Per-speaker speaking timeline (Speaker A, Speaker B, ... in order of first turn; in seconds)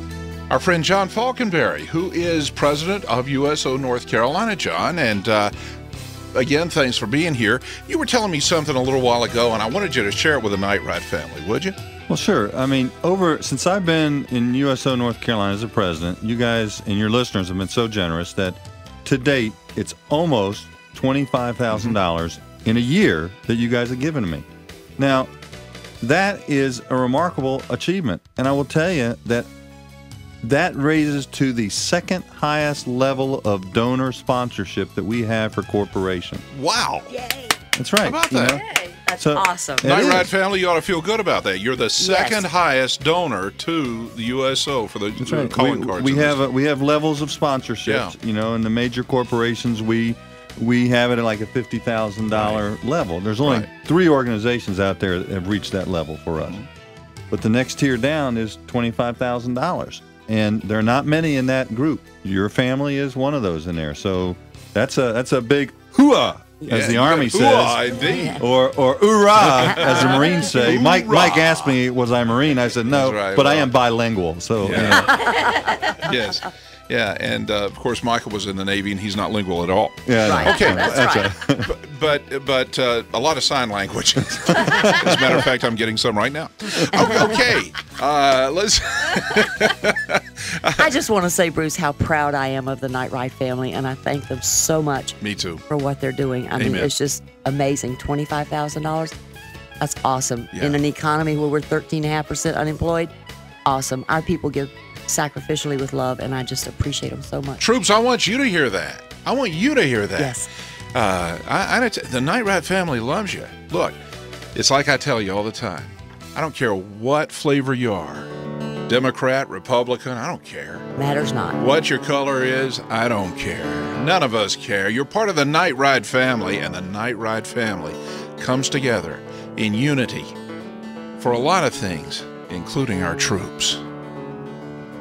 Speaker A: 0.5-5.5, 6.3-11.8, 36.5-37.2, 38.0-38.6, 39.8-46.4, 47.9-48.1, 52.3-52.6, 53.4-53.7, 66.7-68.4, 69.4-71.8, 72.9-73.7, 74.6-75.3, 75.9-90.9, 95.2-95.6, 96.5-96.9, 100.5-100.8, 107.6-110.4, 110.9-114.0, 114.5-118.3, 118.9-120.9, 121.6-130.4, 131.2-133.8
Speaker B: 12.1-24.5, 25.0-25.3, 26.0-29.5, 30.4-36.4, 37.8-38.6, 39.2-40.3, 45.2-56.6, 57.3-75.2, 80.1-81.7, 84.5-85.2
Speaker C: 37.1-37.6, 38.5-39.9, 42.0-42.5, 68.0-68.4, 69.7-70.5, 74.9-76.1, 80.2-81.3, 86.9-87.5, 90.8-95.2, 95.7-99.2, 99.8-103.1, 103.7-107.6, 110.2-110.5, 121.0-121.6